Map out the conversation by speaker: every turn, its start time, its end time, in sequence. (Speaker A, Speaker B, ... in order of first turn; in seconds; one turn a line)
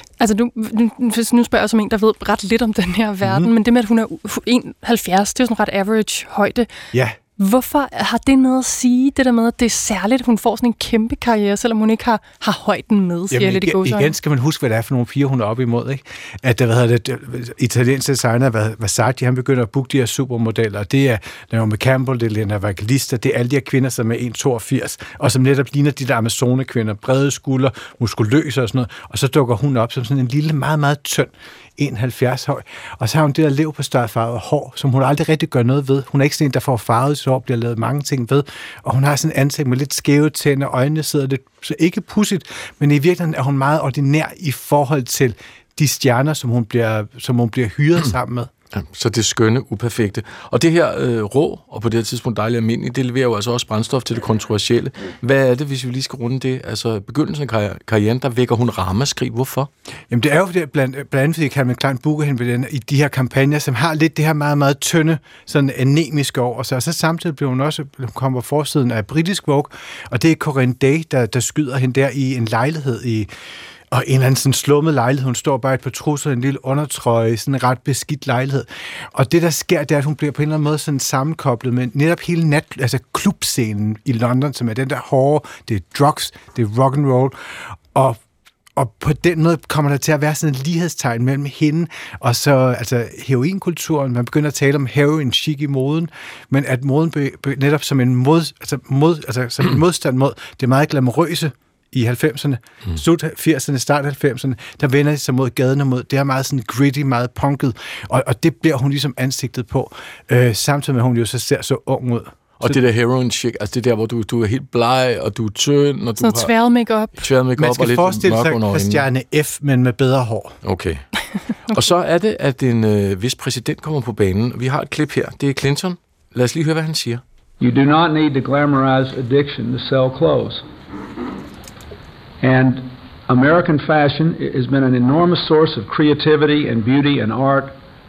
Speaker A: 0.2-6.7
Speaker B: 3.2-3.5
Speaker A: 7.4-14.1
Speaker B: 13.3-48.5
Speaker C: 48.7-59.7
Speaker B: 60.1-73.3
Speaker B: 73.9-87.3
Speaker B: 87.9-88.2
Speaker B: 88.8-112.8
Speaker C: 112.6-116.5
Speaker A: 116.2-117.2
Speaker C: 117.2-119.1
Speaker B: 117.6-120.6
Speaker C: 120.6-121.0
Speaker C: 121.7-127.2
Speaker D: 127.6-130.6
Speaker D: 132.4-137.8